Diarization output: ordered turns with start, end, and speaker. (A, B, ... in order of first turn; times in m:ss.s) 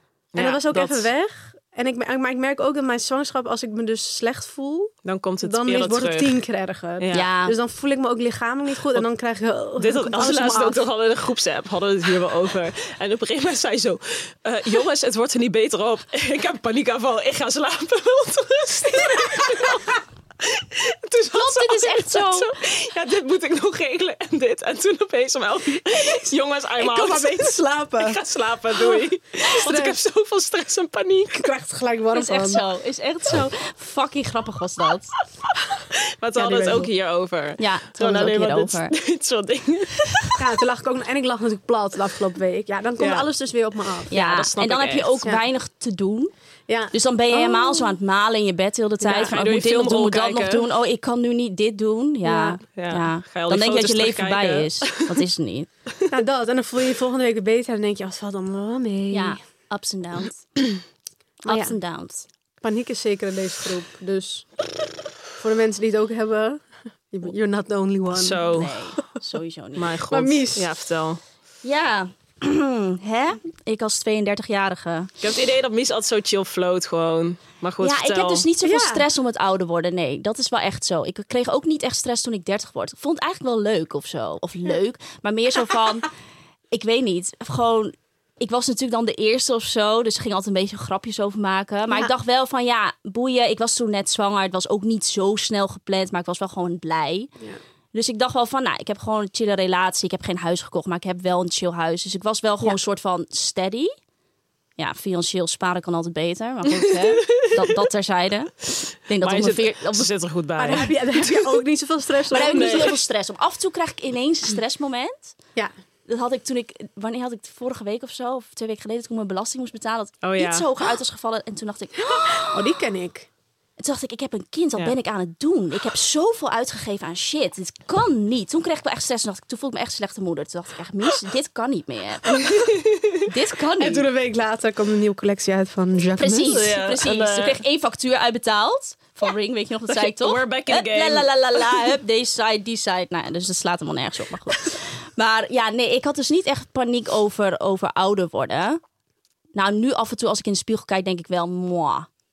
0:00.3-0:01.1 A
0:00.4-0:10.8 B
0:05.0-0:06.4 A
0:07.0-0:07.3 A
0:07.1-0:07.6 C
0:09.8-0:31.5 A
0:21.3-0:22.5 C
0:26.8-0:28.2 B
0:28.8-0:30.0 B
0:31.3-0:32.6 B
0:32.1-0:35.2 C
0:36.2-0:40.4 A
0:36.4-0:36.9 B
0:37.6-0:38.9 C
0:40.4-0:44.1 B
0:43.0-0:43.3 A
0:44.1-0:45.2 A
0:44.1-0:46.3 C
0:46.7-0:48.0 B
0:46.9-0:55.7 C
0:49.0-0:50.7 A
0:52.2-0:52.6 B
0:52.8-0:55.2 A
0:56.1-0:59.4 B
0:59.1-1:00.5 C
1:01.4-1:02.3 C
1:01.5-1:01.8 B
1:02.6-1:04.5 B
1:05.4-1:08.6 B
1:08.1-1:08.8 A
1:08.5-1:09.9 C
1:09.8-1:11.2 A
1:10.1-1:10.8 B
1:11.6-1:15.1 C
1:15.2-1:18.4 A
1:17.8-1:26.1 C
1:18.6-1:19.1 B
1:26.7-1:37.3 C
1:37.9-1:43.9 C
1:44.8-1:50.1 C
1:47.3-1:47.6 A
1:49.2-1:51.6 A
1:50.6-1:53.0 B
1:52.3-1:55.4 C
1:52.3-1:53.0 A
1:56.1-2:02.5 C
2:00.2-2:00.7 A
2:02.3-2:03.3 B
2:03.8-2:12.5 C
2:12.4-2:13.1 A
2:13.3-2:14.1 C
2:13.8-2:16.6 B
2:16.2-2:28.8 C
2:16.4-2:17.6 A
2:19.9-2:22.0 A
2:29.6-2:32.1 C